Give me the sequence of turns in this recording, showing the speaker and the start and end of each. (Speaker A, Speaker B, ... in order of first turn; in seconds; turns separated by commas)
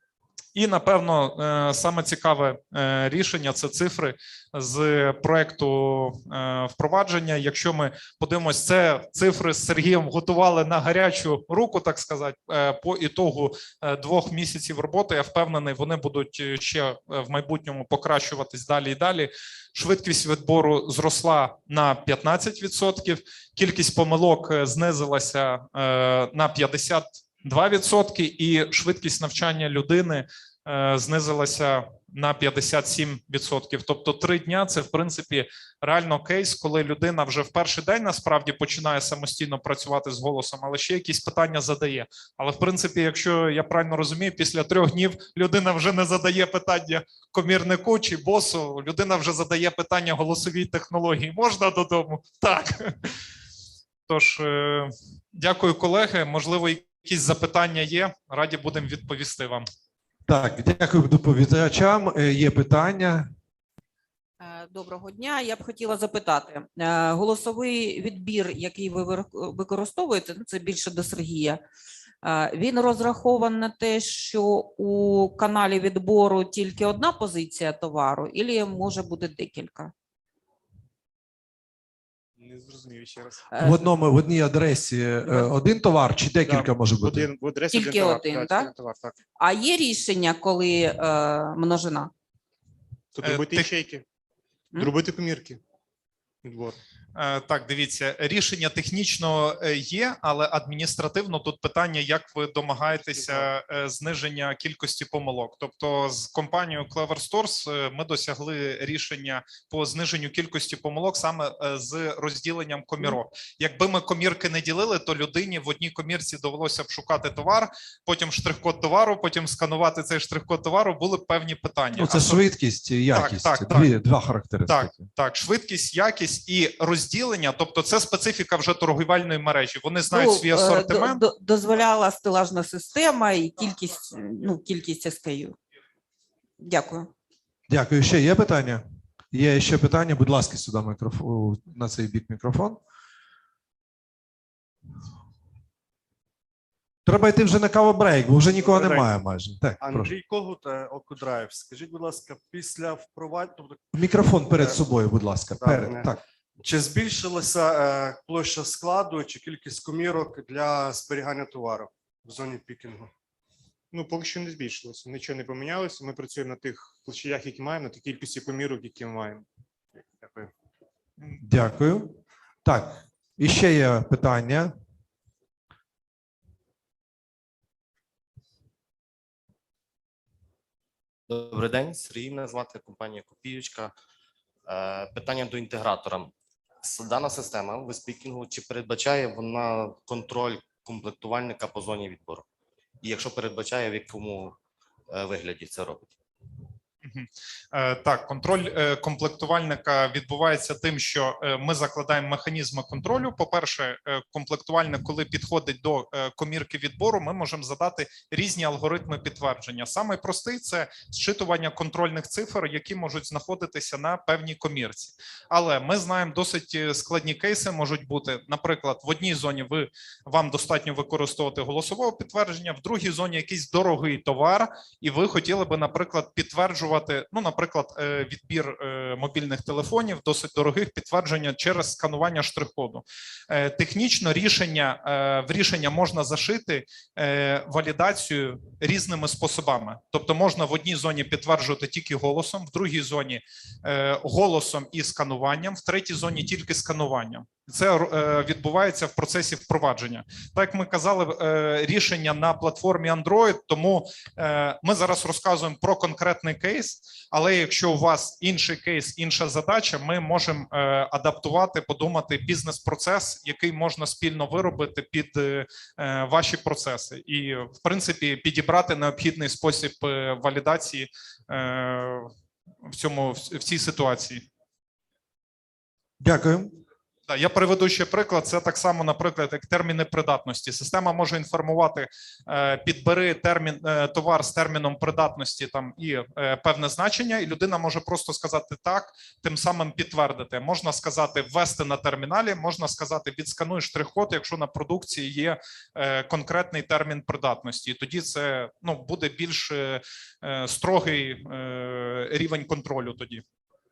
Speaker A: 0.5-53.1, Speaker A: 54.1-59.7, Speaker B: 60.3-63.3, Speaker C: 64.4-71.6, Speaker C: 72.2-79.9, Speaker D: 82.4-83.5, Speaker C: 83.5-83.8, Speaker B: 83.6-87.3, Speaker D: 86.5-89.2, Speaker C: 87.7-88.7, Speaker C: 89.4-92.1, Speaker D: 93.1-94.0, Speaker A: 93.2-93.7, Speaker D: 94.8-95.6, Speaker D: 96.4-96.8, Speaker A: 97.1-122.4, Speaker B: 122.0-125.1, Speaker A: 123.1-123.9, Speaker A: 124.7-131.2, Speaker C: 130.1-135.6, Speaker C: 136.6-137.1, Speaker B: 137.7-142.8, Speaker B: 147.1-150.1, Speaker E: 148.5-149.1, Speaker E: 149.8-153.9, Speaker B: 153.9-156.2, Speaker E: 154.4-154.8, Speaker E: 155.6-156.1, Speaker E: 156.6-163.1, Speaker D: 163.9-169.4, Speaker B: 171.4-174.7, Speaker F: 181.3-183.9, Speaker F: 184.7-192.4, Speaker F: 193.0-194.6, Speaker F: 195.1-196.1, Speaker A: 197.0-272.3, Speaker A: 272.9-274.4, Speaker B: 276.2-276.7, Speaker A: 277.3-303.4